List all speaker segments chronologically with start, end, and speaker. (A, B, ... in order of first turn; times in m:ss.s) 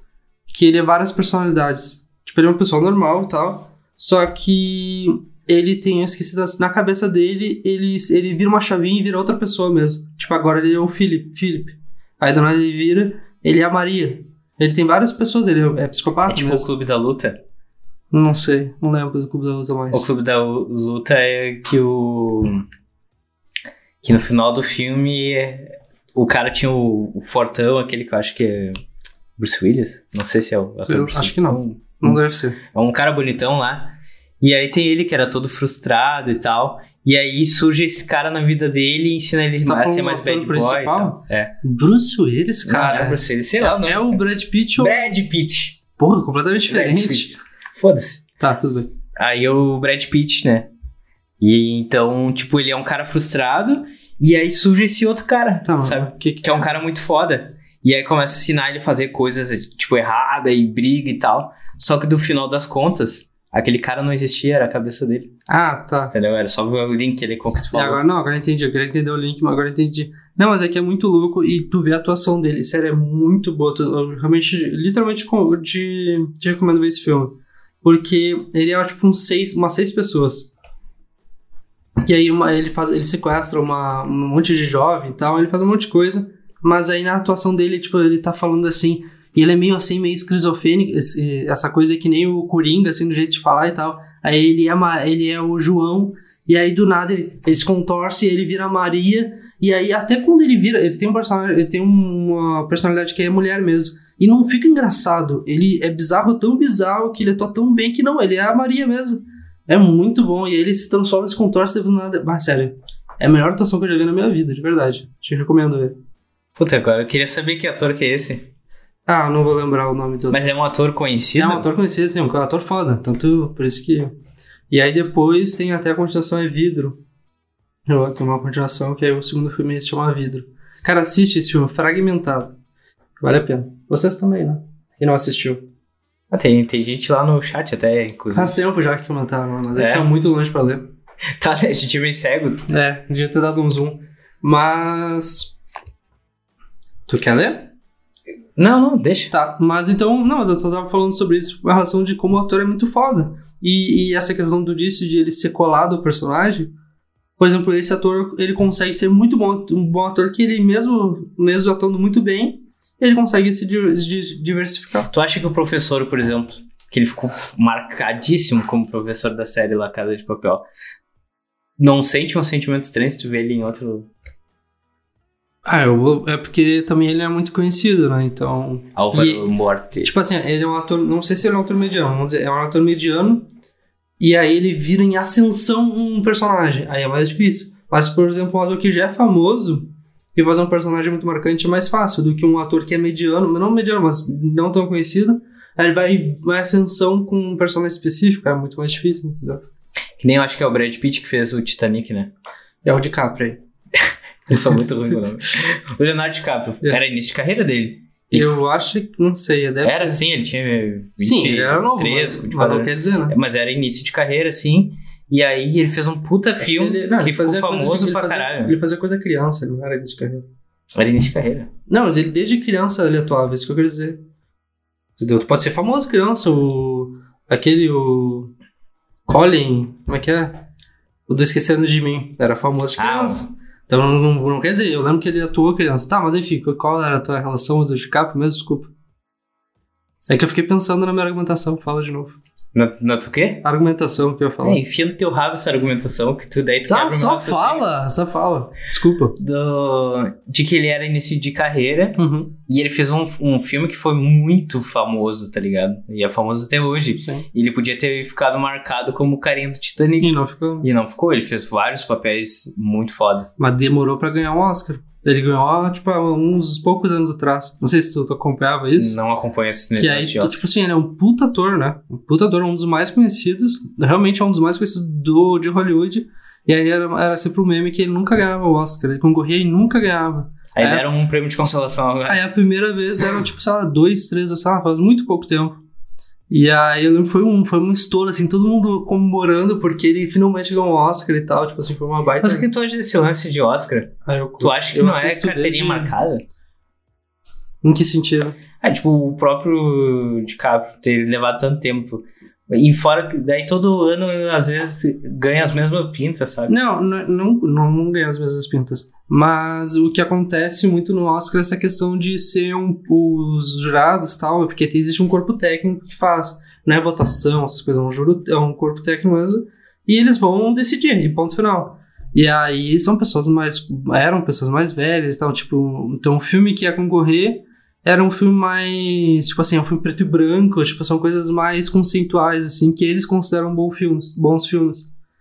0:00.5-0:16.7 A
0:16.3-0:17.4 B
0:18.1-0:20.1 A
0:19.9-0:22.6 B
0:24.0-0:28.8 B
0:29.4-0:32.2 B
0:30.9-0:32.6 A
0:32.7-0:41.6 B
0:39.7-0:45.1 A
0:42.7-0:44.2 B
0:44.8-0:45.8 B
0:46.0-0:47.4 A
0:46.7-0:48.2 B
0:48.4-0:48.9 A
0:49.2-0:50.7 B
0:51.4-1:05.3 B
0:55.6-0:56.7 A
1:05.5-1:06.1 A
1:06.1-1:08.0 B
1:07.7-1:20.5 A
1:22.0-1:56.0 A
1:56.6-1:58.5 B
1:59.1-2:00.4 A
2:00.3-2:01.7 B
2:01.4-2:04.2 A
2:04.7-2:07.0 A
2:07.9-2:12.6 A
2:13.2-2:15.6 A
2:16.3-2:18.6 B
2:18.3-2:20.9 A
2:19.8-2:20.1 B
2:21.4-2:22.6 B
2:22.7-2:25.5 A
2:27.1-2:27.7 A
2:28.6-2:29.3 B
2:29.3-2:36.7 A
2:37.4-2:45.1 A
2:45.1-2:50.6 B
2:51.8-2:54.1 B
2:55.7-3:03.5 A
2:59.0-3:00.1 B
3:04.2-3:19.6 A
3:20.2-3:22.3 B
3:22.8-3:23.6 A
3:24.0-3:28.6 B
3:28.3-3:30.2 A
3:29.8-3:38.7 B
3:31.2-3:33.4 A
3:36.6-3:40.4 A
3:40.9-3:41.7 B
3:41.9-3:44.2 A
3:45.2-3:48.5 A
3:49.3-3:50.6 A
3:51.3-3:58.9 A
3:53.0-3:53.5 B
4:00.3-4:02.4 A
4:02.7-4:03.6 B
4:03.6-4:04.8 A
4:04.6-4:07.9 B
4:06.9-4:09.4 A
4:09.4-4:23.5 B
4:12.2-4:12.6 A
4:17.1-4:17.5 A
4:20.2-4:20.9 A
4:23.6-4:29.2 A
4:29.0-4:30.6 B
4:30.0-4:41.1 A
4:40.8-4:42.4 B
4:42.3-4:45.8 A
4:46.5-4:52.7 A
4:52.4-4:56.4 B
4:54.3-4:56.2 A
4:57.8-4:58.6 A
4:58.8-5:06.7 B
5:06.7-5:35.1 A